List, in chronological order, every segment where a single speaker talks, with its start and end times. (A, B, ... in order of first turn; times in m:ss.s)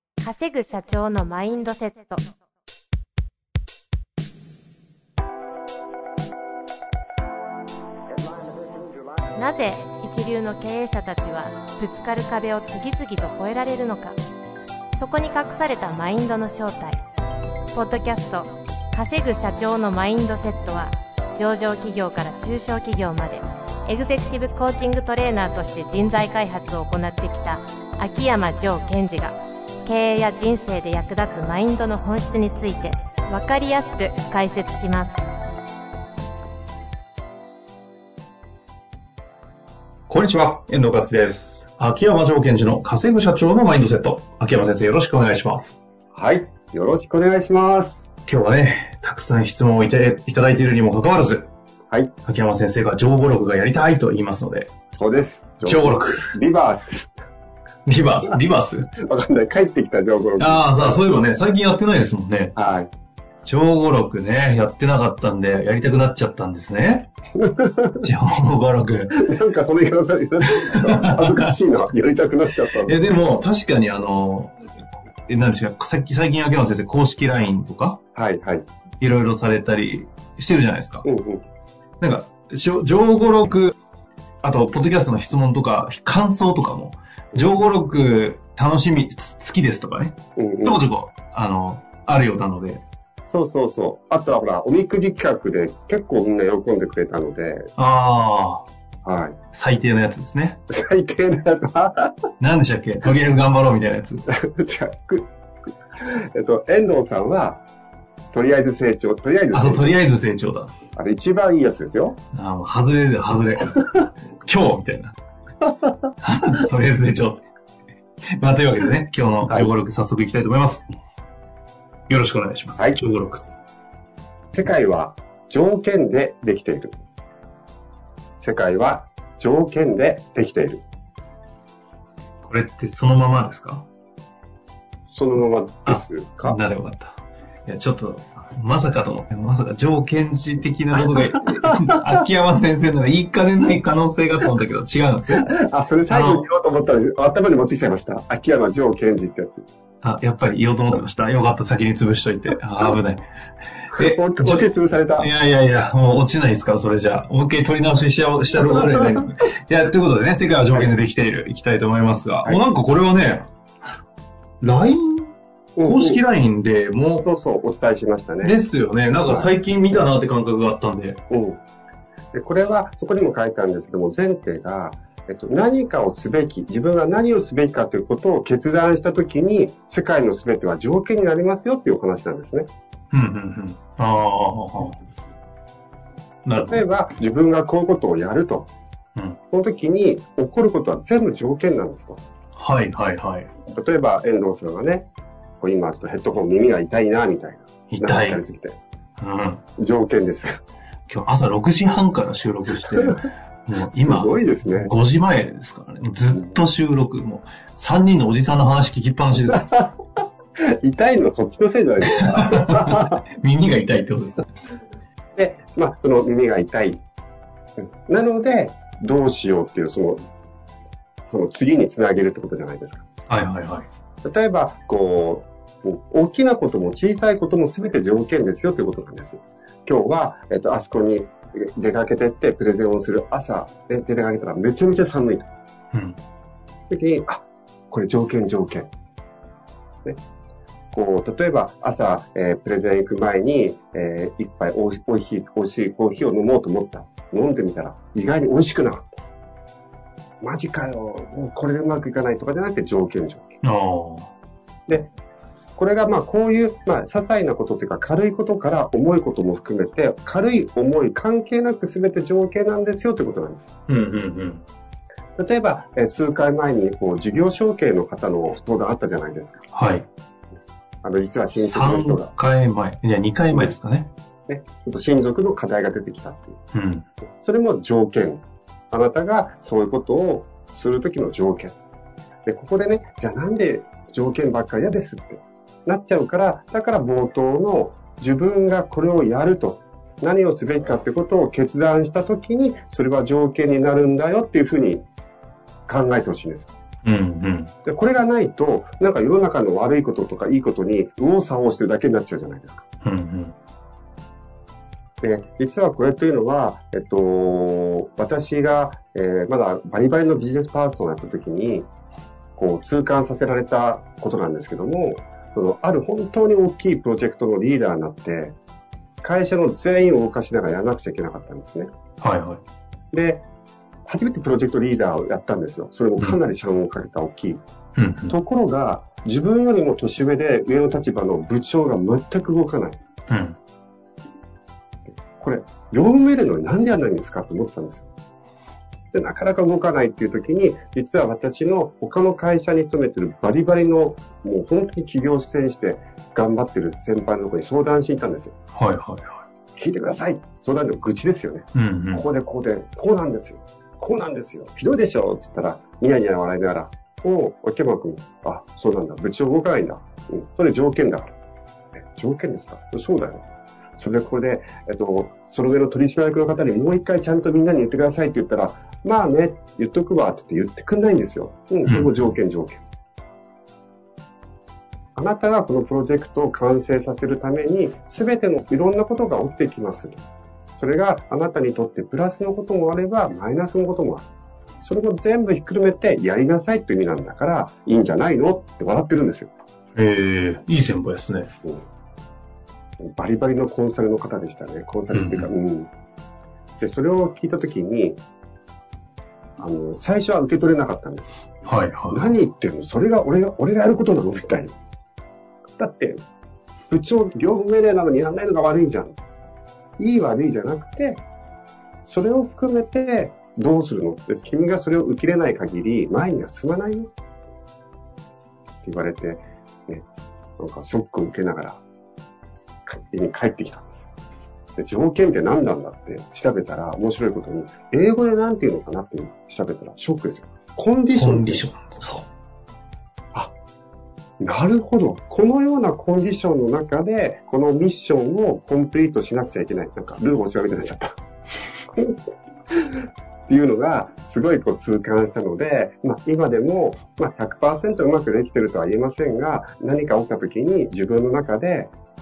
0:00.2-0:02.2 A
0:09.4-0:14.2 A
0:14.9-0:17.0 A
0:17.7-0:35.2 A
0:40.1-0:45.8 B
0:46.1-0:48.0 C
0:48.3-0:51.5 B
0:52.2-0:54.7 B
0:54.9-0:57.1 C
0:55.6-0:56.3 B
0:57.8-0:58.9 B
0:59.0-1:01.2 C
1:00.4-1:02.5 B
1:02.6-1:02.9 C
1:03.4-1:07.1 B
1:07.4-1:08.1 C
1:08.0-1:09.2 B
1:09.1-1:13.0 C
1:10.6-1:11.5 B
1:12.8-1:14.5 B
1:15.3-1:18.0 B
1:18.1-1:18.7 C
1:19.0-1:21.0 B
1:21.0-1:21.4 C
1:22.0-1:23.7 B
1:24.4-1:32.8 B
1:30.4-1:30.8 C
1:33.3-1:37.7 C
1:37.8-1:38.6 B
1:39.0-1:39.4 C
1:39.5-1:40.6 B
1:40.7-1:42.1 C
1:42.4-1:44.2 B
1:44.3-1:45.3 C
1:46.0-1:47.6 C
1:48.3-1:50.0 C
1:49.5-1:50.7 B
1:50.9-1:52.2 C
1:52.3-1:55.1 B
1:56.2-1:57.4 B
1:58.4-2:00.8 B
2:02.1-2:03.5 B
2:04.5-2:07.0 C
2:08.4-2:10.8 C
2:12.4-2:13.9 B
2:15.1-2:16.6 C
2:15.8-2:25.5 B
2:21.2-2:22.1 C
2:25.3-2:29.6 C
2:26.1-2:26.4 B
2:30.0-2:33.2 B
2:33.8-2:43.5 B
2:33.9-2:35.3 C
2:38.5-2:39.2 C
2:44.6-2:47.2 B
2:45.8-2:46.2 C
2:47.2-2:48.6 C
2:48.4-2:51.2 B
2:49.2-2:49.5 C
2:51.3-2:51.6 C
2:52.3-3:02.7 C
3:03.1-3:05.0 B
3:06.4-3:06.8 B
3:06.6-3:08.7 C
3:09.5-3:12.2 C
3:12.6-3:13.5 B
3:13.7-3:15.1 C
3:15.6-3:18.8 C
3:17.9-3:18.4 B
3:19.2-3:19.6 B
3:19.8-3:20.6 C
3:21.1-3:29.7 B
3:23.8-3:24.9 C
3:29.5-3:30.0 C
3:30.6-3:33.2 C
3:32.1-3:34.5 B
3:35.4-3:37.0 C
3:37.8-3:40.2 C
3:41.3-3:43.0 C
3:43.3-3:43.8 B
3:44.2-3:55.5 C
3:55.9-3:56.2 B
3:56.9-3:58.9 C
4:00.9-4:09.2 C
4:10.4-4:13.6 C
4:13.6-4:14.3 B
4:15.8-4:23.7 C
4:23.9-4:24.6 B
4:25.4-4:29.6 C
4:29.7-4:30.1 B
4:31.0-4:32.3 C
4:31.6-4:34.1 B
4:34.5-4:36.6 C
4:36.7-4:37.1 B
4:37.4-4:41.8 C
4:42.4-4:55.0 C
4:55.9-4:56.7 C
4:57.0-4:57.7 B
4:57.8-5:02.8 C
5:03.0-5:03.5 B
5:05.2-5:11.9 C
5:12.6-5:18.6 C
5:19.2-5:21.9 C
5:22.2-5:22.6 B
5:23.1-5:23.4 C
5:24.0-5:27.6 C
5:28.0-5:28.3 B
5:28.3-5:33.0 C
5:33.3-5:33.6 B
5:35.4-5:38.1 C
5:39.1-5:48.5 C
5:48.7-5:49.4 B
5:49.8-6:01.3 C
5:51.7-5:52.2 B
6:02.0-6:03.4 C
6:04.0-6:12.8 C
6:11.9-6:12.2 B
6:15.1-6:20.2 C
6:20.8-6:24.2 C
6:24.8-6:29.5 C
6:30.0-6:31.5 B
6:33.0-6:35.9 C
6:35.1-6:35.5 B
6:36.8-6:38.2 C
6:39.6-6:41.5 C
6:41.6-6:42.3 B
6:42.1-6:44.7 C
6:45.8-6:46.2 C
6:46.9-6:49.2 C
6:50.0-6:51.2 C
6:52.0-6:57.1 C
6:58.8-7:00.0 C
7:00.6-7:01.8 C
7:02.8-7:04.1 C
7:04.8-7:11.6 C
7:11.2-7:12.2 B
7:14.4-7:21.2 C
7:22.7-7:31.9 C